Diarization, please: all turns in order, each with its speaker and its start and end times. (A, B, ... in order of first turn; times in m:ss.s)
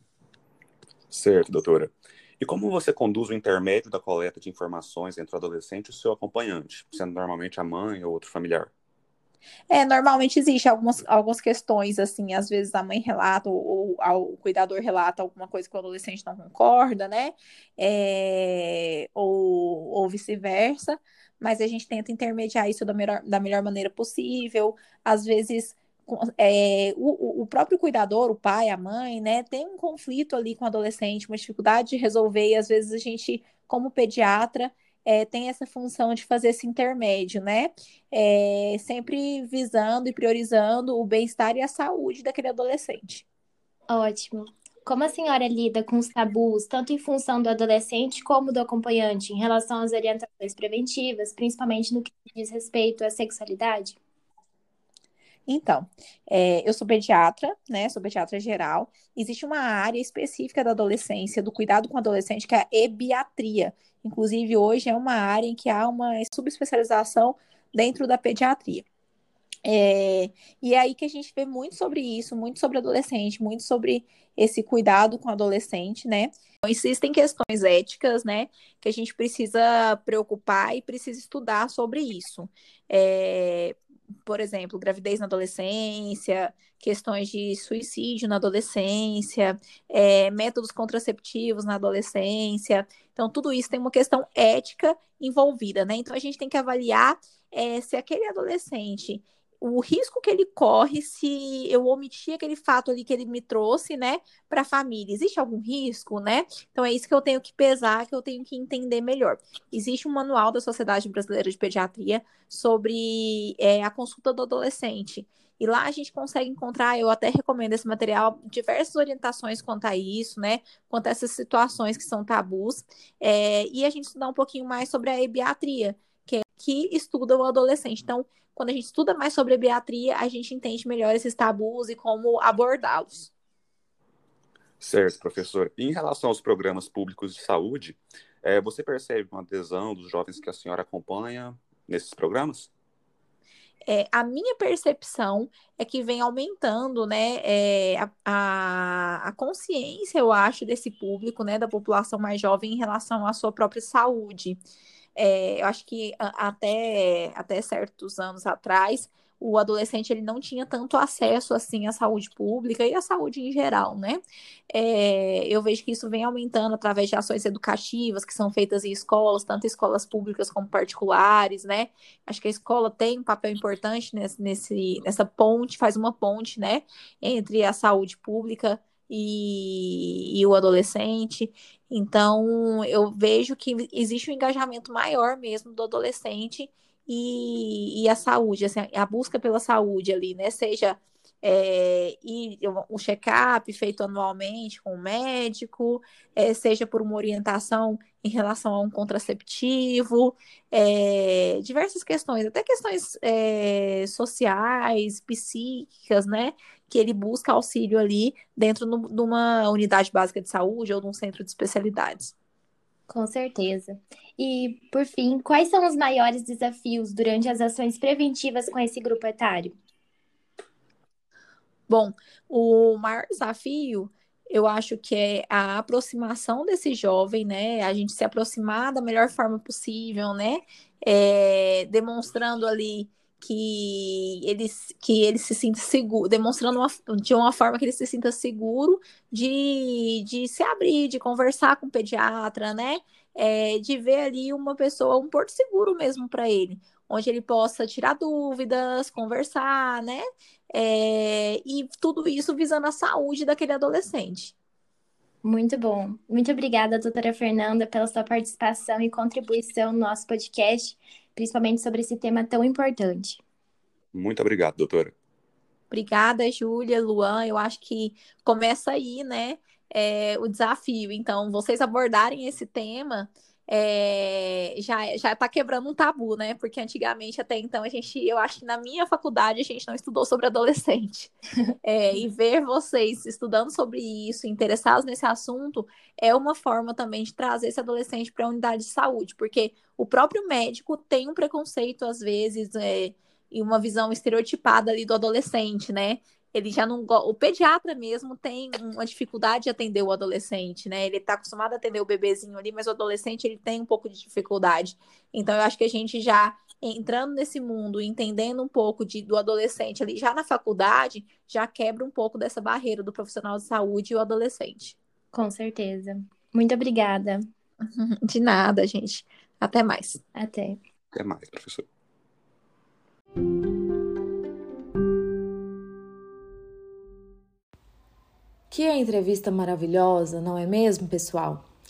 0:01.1-0:08.7 A
0:09.7-0:43.2 B
0:43.9-0:54.0 C
0:55.5-1:08.8 B
1:09.6-2:13.3 B
2:14.8-2:22.7 A
2:23.9-2:34.6 B
2:35.2-3:32.3 B
3:33.1-3:39.8 C
3:41.9-4:14.5 B
4:15.4-4:23.4 C
4:24.1-4:25.1 A
4:25.9-4:41.3 B
4:41.8-5:15.0 B
5:15.3-5:17.5 C
5:17.8-5:20.2 B
5:20.4-5:20.8 C
5:21.1-5:21.9 A
5:28.7-5:31.6 D